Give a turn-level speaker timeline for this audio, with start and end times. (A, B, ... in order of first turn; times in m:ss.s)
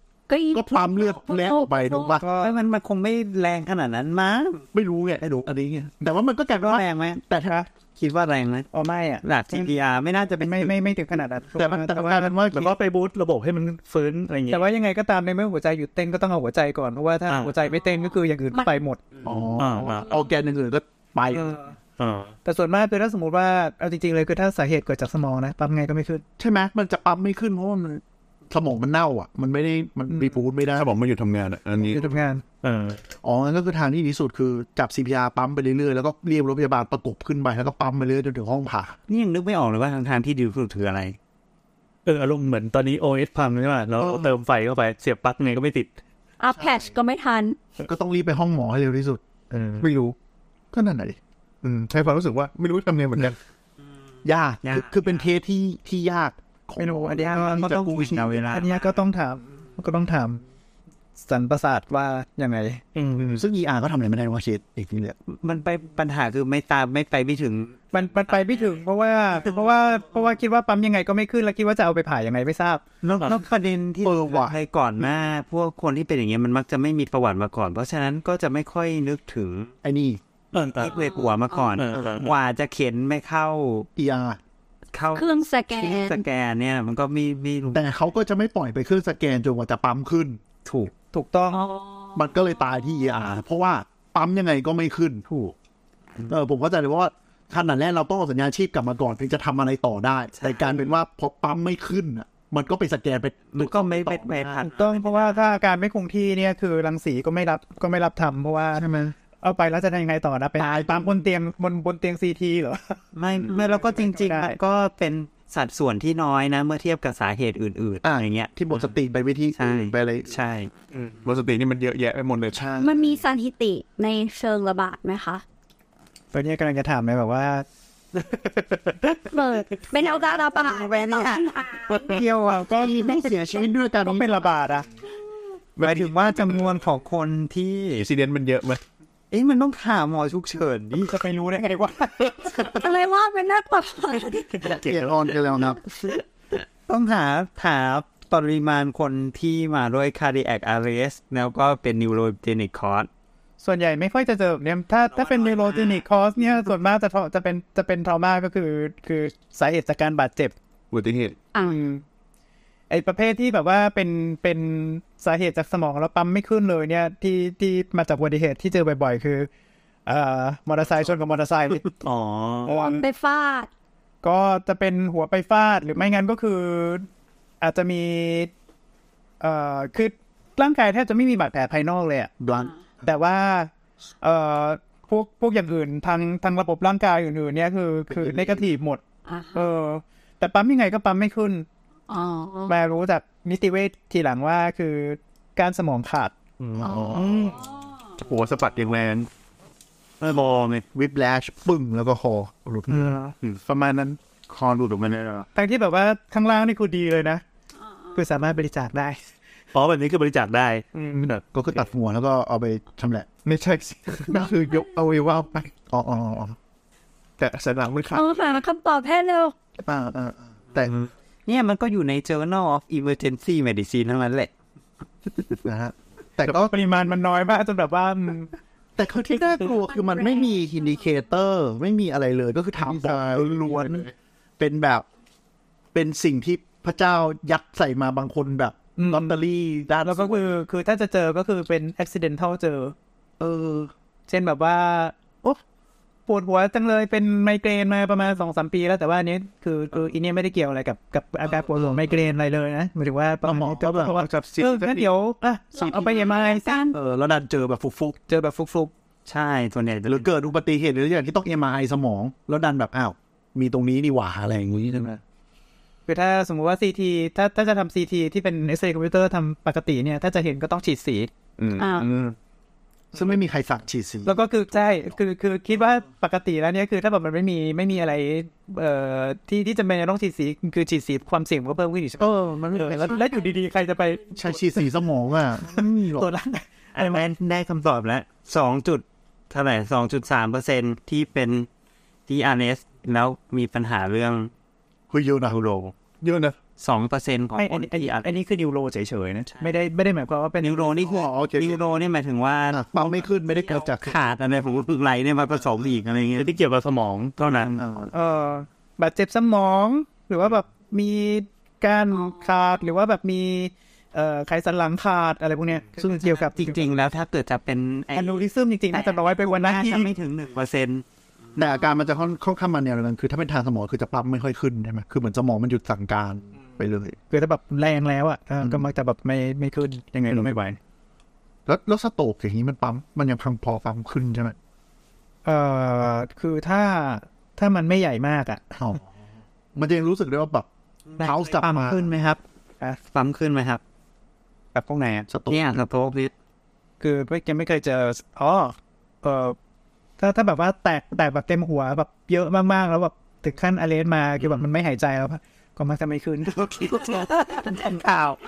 0:00.3-0:02.2 A
0:00.5-0:02.2 B
0:02.2-0:02.5 C
0:02.4-0:04.6 D
0:04.7-0:07.6 B
0:05.2-0:05.5 D
0:06.5-0:07.2 D
0:08.0-0:08.7 D
0:08.7-0:09.7 C
0:09.2-0:10.7 D
0:10.4-0:12.3 C
0:11.6-0:12.7 B
0:12.5-0:14.6 E
0:14.5-0:19.0 C
0:17.3-0:17.6 E
0:19.2-0:21.5 B
0:19.6-0:20.1 E
0:21.3-0:21.7 C
0:22.0-0:22.3 E
0:22.4-0:26.2 C
0:26.4-0:30.9 B
0:30.7-0:32.0 F
0:31.9-0:32.4 C
0:32.6-0:33.0 E
0:33.2-0:38.9 B
0:39.1-0:41.2 D
0:42.0-0:45.9 E
0:44.0-0:44.3 B
0:46.4-0:47.6 A
0:46.6-0:46.8 B
0:47.8-0:49.2 B
0:49.5-0:49.8 E
0:49.8-0:50.2 B
0:50.7-0:51.2 B
0:51.6-0:53.4 F
0:54.2-0:58.4 B
0:54.6-0:55.0 D
0:56.8-0:57.8 C
0:57.5-0:58.7 D
0:58.5-1:00.4 C
1:01.2-1:02.8 C
1:02.9-1:03.4 E
1:03.2-1:05.2 B
1:05.3-1:07.8 D
1:07.9-1:12.8 C
1:13.0-1:19.7 D
1:14.0-1:14.6 B
1:19.8-1:20.2 B
1:20.5-1:21.0 E
1:20.8-1:23.9 D
1:21.8-1:22.3 E
1:24.0-1:24.4 B
1:24.9-1:27.8 D
1:25.1-1:26.2 A
1:27.7-1:30.4 B
1:30.7-1:31.6 C
1:31.5-1:32.2 A
1:32.1-1:35.5 B
1:36.3-1:44.5 B
1:40.4-1:40.8 D
1:43.5-1:45.0 D
1:44.6-1:48.8 C
1:48.7-1:49.1 B
1:49.4-1:53.0 C
1:50.6-1:51.0 B
1:53.1-1:58.5 D
1:53.9-1:54.6 C
1:58.0-2:00.3 B
1:59.6-2:00.7 D
2:01.2-2:02.7 F
2:02.5-2:03.2 B
2:02.8-2:05.4 A
2:06.3-2:07.6 C
2:09.3-2:12.2 A
2:09.8-2:13.7 D
2:12.7-2:14.2 B
2:14.0-2:14.8 C
2:15.8-2:16.6 F
2:15.8-2:18.1 D
2:18.0-2:18.8 F
2:19.3-2:21.1 D
2:21.0-2:22.5 C
2:22.6-2:24.7 A
2:24.6-2:25.8 B
2:25.8-2:33.1 D
2:33.6-2:40.5 C
2:35.1-2:36.0 D
2:40.9-2:41.4 F
2:41.6-2:42.0 C
2:42.9-2:49.5 C
2:50.0-2:51.8 C
2:51.9-2:52.7 E
2:52.6-2:53.0 C
2:52.7-2:53.7 A
2:54.2-2:57.0 C
2:57.6-2:58.5 C
2:59.4-3:02.3 C
3:02.4-3:02.7 B
3:03.0-3:03.7 C
3:04.2-3:09.0 C
3:08.1-3:08.6 B
3:09.3-3:09.6 A
3:09.5-3:11.6 C
3:12.1-3:12.7 A
3:12.6-3:16.3 C
3:16.6-3:17.6 E
3:16.8-3:17.5 B
3:17.6-3:17.9 A
3:18.2-3:19.3 F
3:20.2-3:20.6 D
3:20.2-3:20.8 E
3:20.9-3:23.1 B
3:22.9-3:23.3 C
3:23.6-3:24.2 F
3:25.5-3:27.4 C
3:28.1-3:29.2 C
3:29.7-3:31.4 E
3:30.9-3:31.2 C
3:31.5-3:33.3 B
3:33.4-3:35.7 F
3:34.2-3:36.6 B
3:37.4-3:38.2 F
3:38.1-3:39.5 A
3:39.8-3:41.0 B
3:41.4-3:44.5 D
3:45.5-3:46.7 B
3:46.4-3:48.5 C
3:49.0-3:55.0 B
3:55.9-4:00.4 B
3:59.0-3:59.4 C
4:00.0-4:02.9 C
4:03.4-4:03.9 B
4:04.3-4:05.6 C
4:06.3-4:16.8 C
4:13.4-4:15.0 B
4:15.7-4:16.9 A
4:16.9-4:18.2 B
4:18.3-4:18.9 C
4:19.2-4:20.3 D
4:20.0-4:25.2 B
4:26.1-4:31.3 C
4:31.6-4:32.4 B
4:31.8-4:32.1 A
4:33.1-4:34.3 B
4:34.2-4:44.8 C
4:42.2-4:43.3 B
4:44.3-4:46.3 B
4:45.7-4:47.2 C
4:47.0-4:51.7 D
4:52.3-4:54.5 D
4:55.1-4:56.6 B
4:56.8-4:58.3 D
4:57.6-5:01.0 C
5:00.6-5:06.5 D
5:01.0-5:01.8 B
5:02.7-5:04.2 B
5:06.4-5:07.8 E
5:07.8-5:08.1 B
5:08.1-5:16.8 C
5:16.0-5:21.0 D
5:18.1-5:20.1 C
5:21.6-5:27.2 B
5:27.3-5:30.8 C
5:28.6-5:28.9 B
5:31.6-5:34.6 B
5:35.4-5:38.6 C
5:38.7-5:39.0 B
5:39.7-5:40.7 B
5:41.1-5:42.4 D
5:41.2-5:42.1 B
5:43.0-5:43.8 D
5:44.7-5:45.3 C
5:45.3-5:45.6 B
5:45.4-5:46.3 D
5:47.0-5:49.6 C
5:50.2-5:58.0 C
5:57.8-5:58.4 D